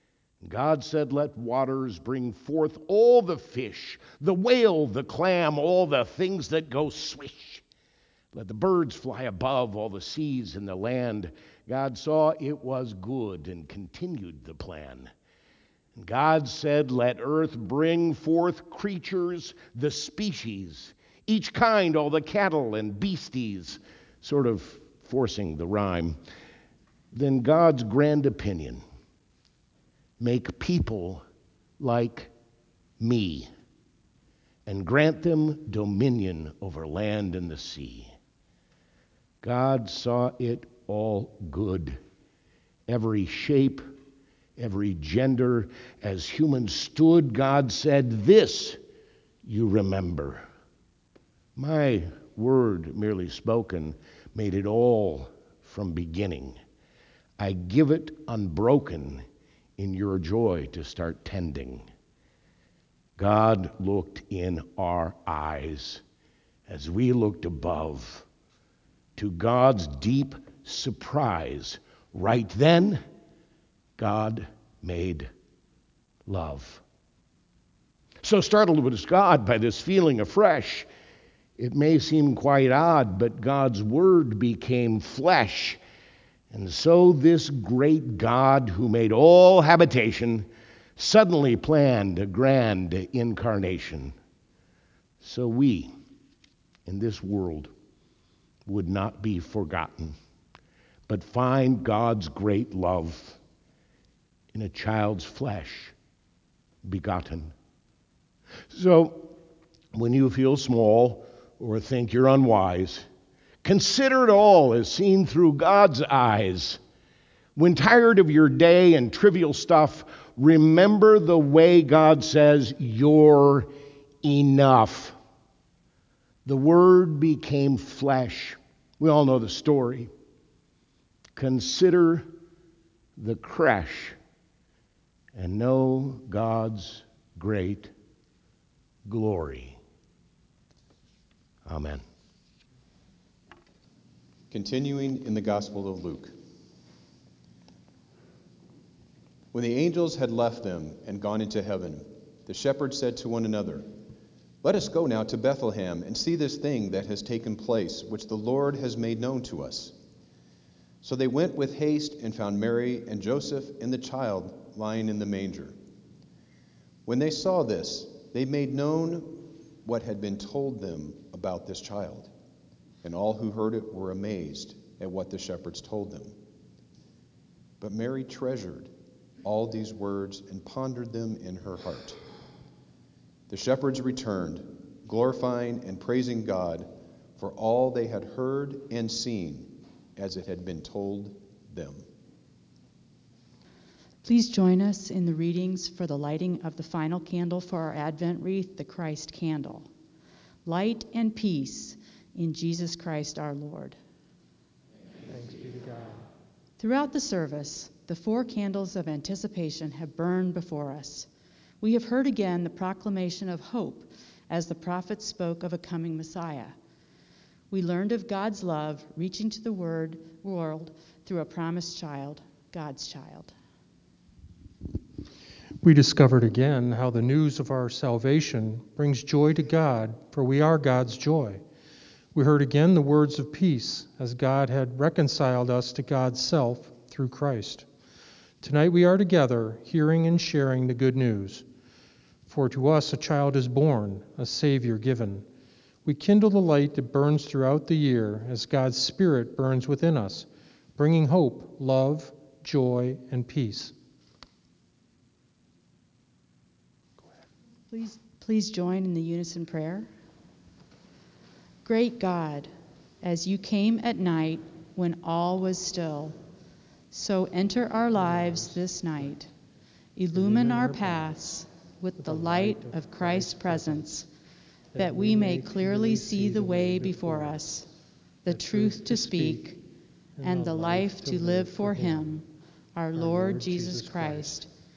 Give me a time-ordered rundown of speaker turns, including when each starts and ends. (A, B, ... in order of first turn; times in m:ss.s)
0:00.4-0:07.6 A
0:08.3-0:15.1 A
0:15.9-0:26.2 A
0:27.1-0:28.8 A
0:30.2-0:31.2 A
0:31.8-0:32.3 A
0:33.0-0:33.5 A
0:34.6-0:38.1 A
0:39.4-0:42.0 A
0:42.9-0:43.8 A
0:44.6-0:48.8 A
0:49.4-0:50.4 A
0:51.6-0:56.6 A
0:57.4-0:59.2 A
0:59.8-1:01.9 A
1:03.2-1:06.0 A
1:06.7-1:08.2 A
1:09.2-1:13.0 A
1:14.0-1:15.3 A
1:16.3-1:16.8 A
1:18.2-1:20.9 A
1:21.6-1:25.8 A
1:26.5-1:34.1 A
1:35.2-1:35.9 A
1:36.8-1:37.7 A
1:38.6-1:40.2 A
1:41.1-1:43.4 A
1:44.5-1:45.9 A
1:46.8-1:47.5 A
1:48.7-1:49.3 A
1:49.9-1:53.0 A
1:53.6-1:56.8 A
1:57.6-2:03.7 A
2:04.2-2:05.2 A
2:06.4-2:10.1 A
2:11.3-2:12.3 A
2:13.2-2:14.2 A
2:15.3-2:17.9 A
2:19.0-2:19.8 A
2:21.6-2:22.0 A
2:24.5-2:26.3 B
2:29.5-2:33.9 B
2:34.6-2:39.9 B
2:41.0-2:45.8 B
2:47.0-2:52.3 B
2:53.0-2:56.3 B
2:57.8-2:58.9 B
2:59.4-3:02.2 B
3:03.5-3:12.0 B
3:14.2-3:19.9 C
3:20.6-3:24.0 C
3:25.3-3:26.2 D
3:26.8-3:31.3 C
3:31.8-3:36.7 C
3:37.7-3:43.5 C
3:45.8-3:51.6 D
3:52.3-3:57.9 D
3:58.6-4:01.6 D
4:02.5-4:05.5 D
4:06.0-4:13.9 D
4:17.9-4:20.1 C
4:21.8-4:22.7 C
4:23.2-4:26.4 C
4:27.1-4:29.5 C
4:30.2-4:34.3 C
4:30.5-4:30.8 D
4:34.9-4:37.9 C
4:35.1-4:36.7 D
4:38.4-4:39.8 C
4:38.6-4:39.6 D
4:40.4-4:44.7 C
4:40.4-4:42.2 D
4:43.2-4:44.6 D